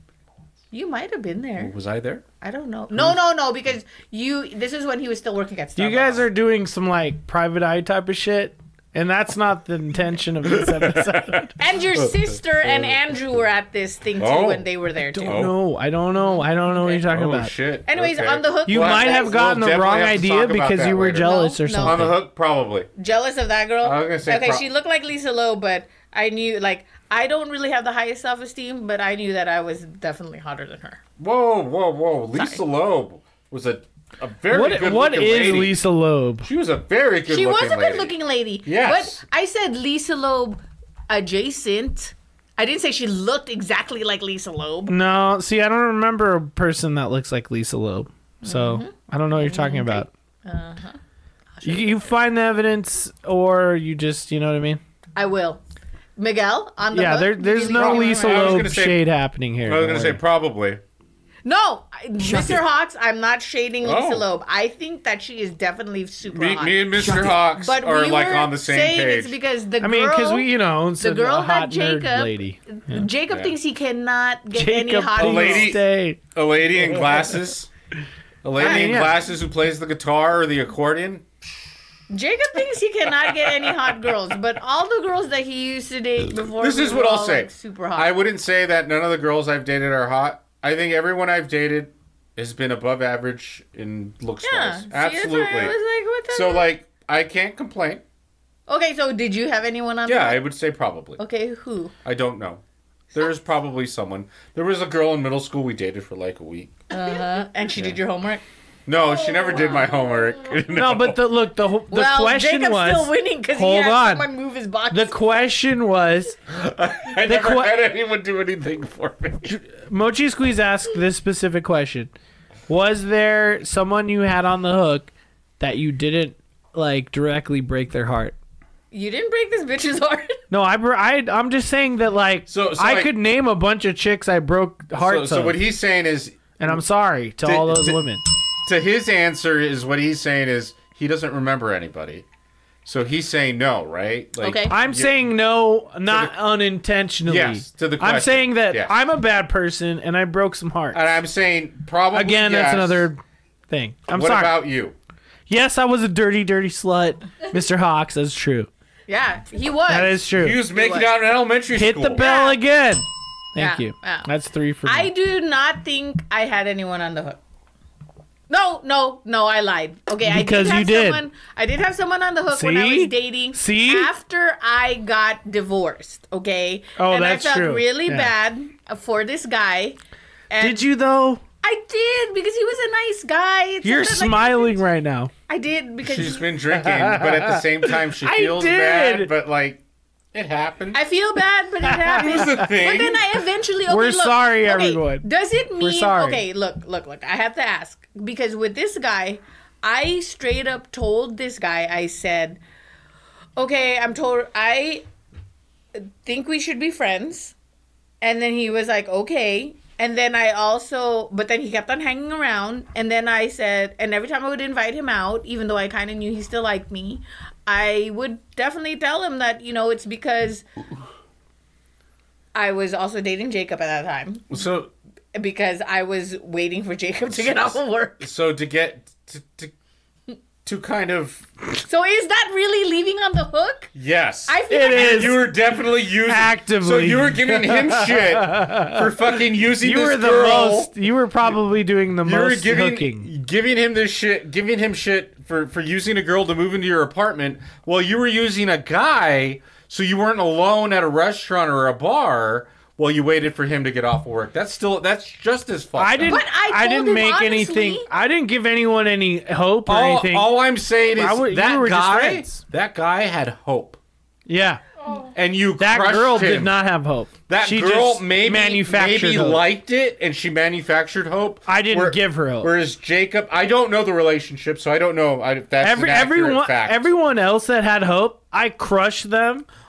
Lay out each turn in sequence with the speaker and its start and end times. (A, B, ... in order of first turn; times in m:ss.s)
0:00.7-0:01.7 A
0:01.6-0:02.2 B
0:02.4-0:06.3 A
0:05.8-0:11.5 C
0:10.4-0:11.4 B
0:11.6-0:15.5 A
0:11.9-0:13.0 B
0:14.2-0:14.7 B
0:15.1-0:17.5 C
0:15.2-0:15.6 B
0:16.2-0:17.0 A
0:17.1-0:22.9 B
0:17.8-0:19.6 A
0:18.7-0:22.1 C
0:21.2-0:22.1 A
0:23.0-0:31.0 A
0:23.8-0:24.6 B
0:31.2-0:35.8 B
0:32.4-0:32.6 A
0:34.5-0:36.5 C
0:36.4-0:38.1 B
0:37.3-0:45.0 A
0:38.6-0:39.2 B
0:44.9-0:50.1 C
0:48.4-0:51.0 A
0:51.6-0:52.1 A
0:51.6-0:54.8 C
0:55.2-0:55.6 A
0:56.2-0:58.7 A
0:56.9-1:00.2 C
0:57.7-0:59.0 B
0:59.6-1:00.8 B
1:01.4-1:15.7 A
1:02.2-1:02.6 C
1:03.8-1:04.3 B
1:06.3-1:09.4 B
1:07.0-1:07.3 C
1:09.8-1:13.1 C
1:14.5-1:16.2 C
1:15.1-1:17.7 B
1:18.4-1:21.3 B
1:18.6-1:19.1 A
1:18.6-1:19.2 C
1:22.1-1:28.1 A
1:23.3-1:23.8 B
1:26.4-1:35.8 B
1:34.4-1:36.7 A
1:36.3-1:38.0 B
1:38.7-1:40.4 A
1:40.0-1:41.2 B
1:41.2-1:41.9 A
1:42.0-1:42.6 B
1:43.1-1:46.7 B
1:46.9-1:48.4 A
1:48.8-1:51.2 B
1:49.3-1:49.8 A
1:50.7-1:54.2 C
1:51.9-1:55.2 A
1:54.9-1:56.3 C
1:56.5-1:59.5 B
1:57.2-1:57.8 C
1:59.4-2:02.1 C
2:02.7-2:08.3 C
2:08.9-2:10.4 A
2:10.5-2:15.6 C
2:12.5-2:13.1 B
2:14.9-2:16.8 B
2:16.6-2:18.2 C
2:17.4-2:18.0 B
2:18.6-2:22.2 B
2:22.8-2:25.2 B
2:24.4-2:24.7 A
2:24.7-2:31.0 C
2:26.1-2:26.3 B
2:27.2-2:28.9 B
2:30.9-2:33.1 B
2:32.1-2:34.6 C
2:34.1-2:35.0 B
2:35.5-2:38.7 C
2:39.1-2:41.1 A
2:39.9-2:40.6 C
2:40.3-2:42.3 B
2:41.7-2:45.1 C
2:42.2-2:42.6 A
2:43.6-2:44.3 A
2:44.8-2:47.4 A
2:48.5-3:00.0 A
2:50.2-2:51.2 C
2:52.5-2:54.1 C
2:57.0-2:58.3 C
3:00.5-3:00.9 A
3:00.6-3:01.4 C
3:01.6-3:04.8 A
3:03.8-3:05.3 C
3:05.5-3:06.4 A
3:06.0-3:11.0 B
3:06.7-3:09.3 C
3:10.9-3:22.6 A
3:11.8-3:12.2 C
3:12.1-3:13.2 B
3:13.9-3:15.2 C
3:15.8-3:16.4 C
3:23.6-3:25.0 A
3:25.9-3:27.5 A
3:28.2-3:40.6 A
3:42.5-3:44.6 A
3:44.5-3:44.9 B
3:45.3-3:48.2 A
3:47.3-3:49.7 B
3:50.6-3:51.4 B
3:51.9-3:53.9 A
3:53.9-4:00.9 B
3:54.5-3:55.5 A
3:54.7-3:55.4 C
3:56.3-3:59.0 C
3:59.8-4:03.3 C
4:02.2-4:16.4 B
4:16.0-4:20.6 C
4:16.3-4:18.1 A
4:19.8-4:24.0 B
4:21.1-4:22.6 C
4:24.5-4:24.8 C
4:25.3-4:26.8 B
4:25.8-4:29.6 C
4:27.5-4:37.1 B
4:31.7-4:32.7 C
4:35.8-4:39.6 C